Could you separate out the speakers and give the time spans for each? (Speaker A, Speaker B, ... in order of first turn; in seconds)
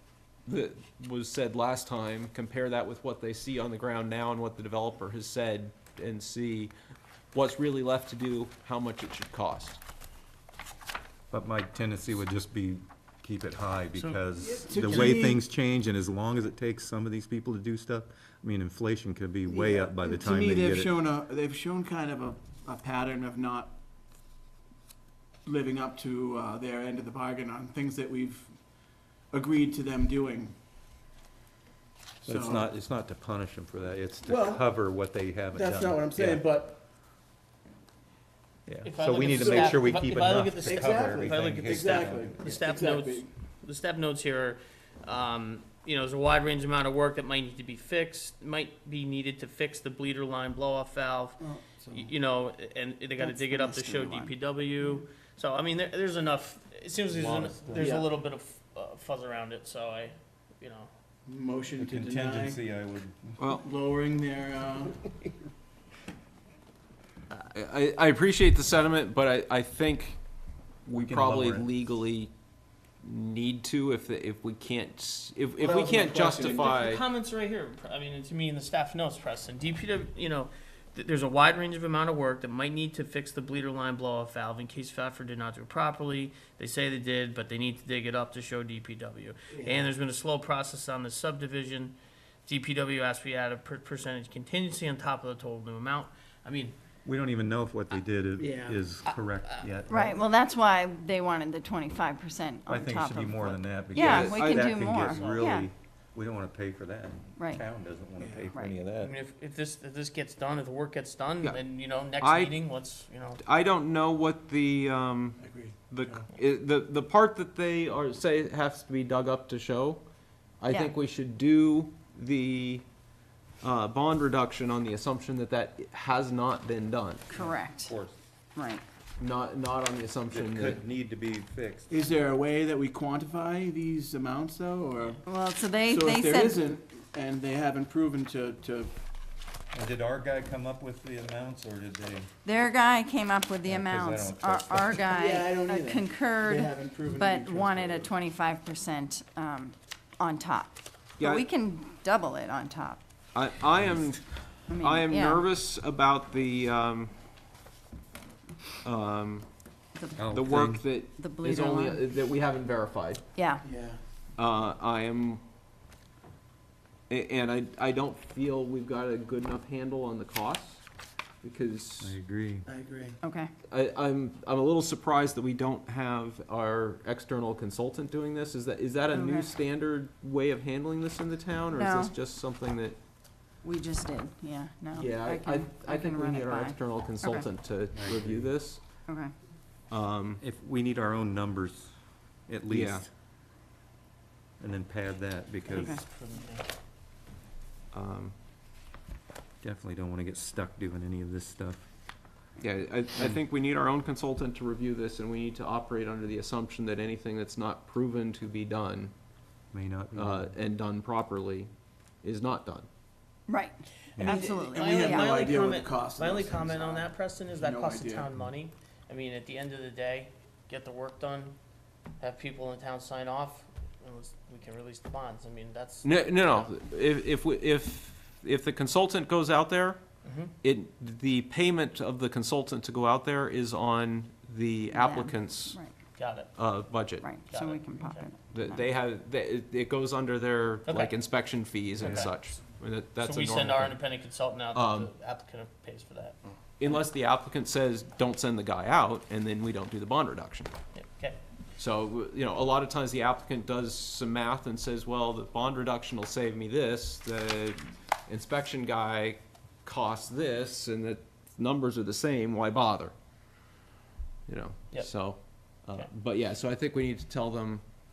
Speaker A: 0.4-6.7, 7.3-9.8, 57.8-58.0, 67.3-70.2, 70.8-72.3, 73.0-77.0, 103.9-104.8, 112.2-112.6, 113.4-120.0, 120.6-122.9, 123.6-127.3, 129.2-130.8, 151.2-151.4, 153.3-157.1, 158.8-159.5, 160.3-163.2, 164.4-165.4, 167.1-170.8, 171.4-172.2, 173.7-183.0, 184.9-188.8, 189.9-190.4, 192.7-193.0, 197.9-198.3, 202.6-209.1, 210.1-211.7, 212.2-212.9, 226.0-230.0, 230.6-235.8, 236.5-237.3, 238.5-244.0, 244.7-245.1, 246.8-250.8, 251.8-263.1, 264.5-267.9
Speaker B: 11.3-20.9, 32.2-36.4, 38.7-42.5, 57.1-57.9, 61.8-63.4, 70.9-71.7, 97.0-100.2, 102.7-109.1, 127.3-128.2, 130.3-131.9, 139.7-142.3, 143.7-145.1, 160.2-160.8, 172.0-172.7, 187.9-188.5, 190.4-191.9, 192.5-193.1, 194.6-196.0, 199.6-201.8, 209.7-210.5, 214.2-214.5, 242.0-242.3
Speaker C: 13.9-14.2, 14.8-15.2, 38.8-60.9, 76.4-91.9, 92.5-96.8, 99.0-99.7, 104.9-105.6, 108.9-113.4, 195.6-196.7, 214.2-221.6, 222.2-226.7, 230.2-230.5, 236.2-236.5, 237.5-238.3, 240.8-241.2, 241.9-242.4, 243.2-246.4, 250.9-251.4
Speaker D: 14.3-15.4, 19.5-23.7, 25.4-30.5, 32.2-32.7, 34.2-34.8, 35.5-36.8, 39.2-39.8, 40.6-43.3, 51.4-52.1, 61.2-62.6, 63.5-65.0, 75.6-76.7, 89.5-89.9, 98.4-98.8, 108.2-108.5, 115.4-116.2, 131.9-135.2, 135.8-138.9, 145.1-148.1, 163.6-164.0, 172.7-173.2, 214.7-218.3
Speaker E: 53.2-55.0, 99.9-105.7, 107.4-107.6, 120.7-120.9, 127.3-128.0, 128.5-128.8, 135.2-136.6, 142.4-153.0, 154.7-155.4, 159.9-160.2, 161.2-162.0, 163.3-163.6, 173.2-173.5, 179.1-179.6, 181.7-182.1, 183.6-187.5, 189.1-189.3, 195.7-196.0, 213.5-215.4, 234.9-235.9, 237.2-238.8